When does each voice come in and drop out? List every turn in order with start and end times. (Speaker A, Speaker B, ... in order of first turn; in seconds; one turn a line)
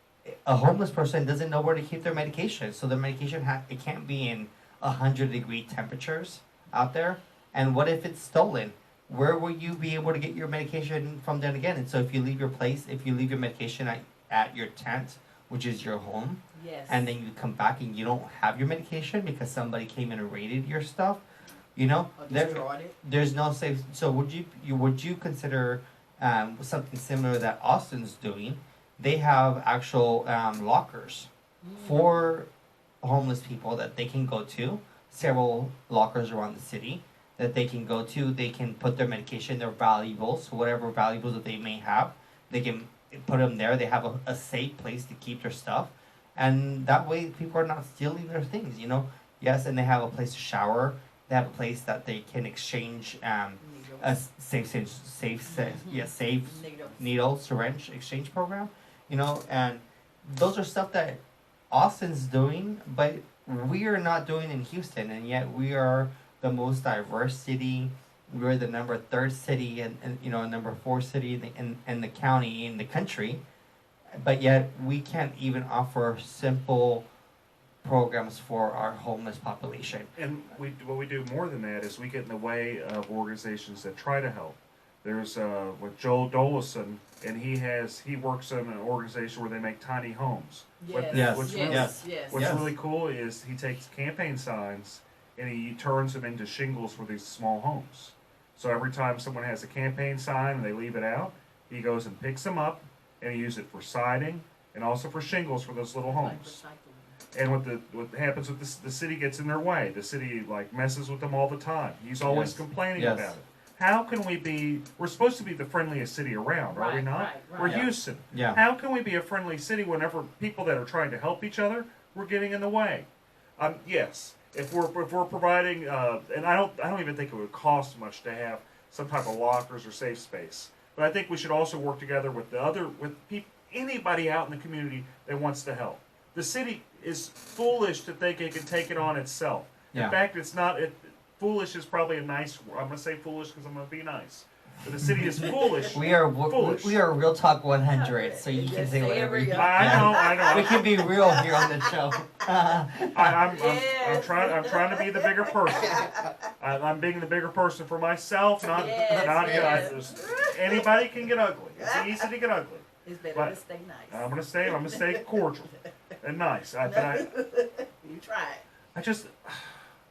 Speaker A: 0.3-21.2
Speaker B: 16.5-17.1
Speaker A: 21.8-32.5
Speaker B: 22.2-23.0
Speaker B: 31.6-32.3
Speaker A: 33.0-61.2
Speaker B: 53.6-54.1
Speaker B: 55.5-57.1
Speaker A: 61.7-73.4
Speaker A: 74.2-77.1
Speaker A: 77.8-80.1
Speaker C: 80.2-106.6
Speaker B: 90.8-92.5
Speaker A: 91.1-92.7
Speaker B: 106.0-107.2
Speaker C: 107.3-147.0
Speaker A: 112.2-113.3
Speaker B: 116.7-117.9
Speaker A: 117.6-118.6
Speaker A: 145.2-153.6
Speaker B: 145.3-145.9
Speaker B: 147.8-152.0
Speaker C: 149.5-150.8
Speaker C: 153.1-163.6
Speaker B: 153.5-156.3
Speaker B: 158.6-161.0
Speaker A: 159.1-159.9
Speaker B: 161.8-162.3
Speaker B: 163.1-165.4
Speaker C: 164.1-167.3
Speaker B: 166.8-168.7
Speaker C: 168.9-169.8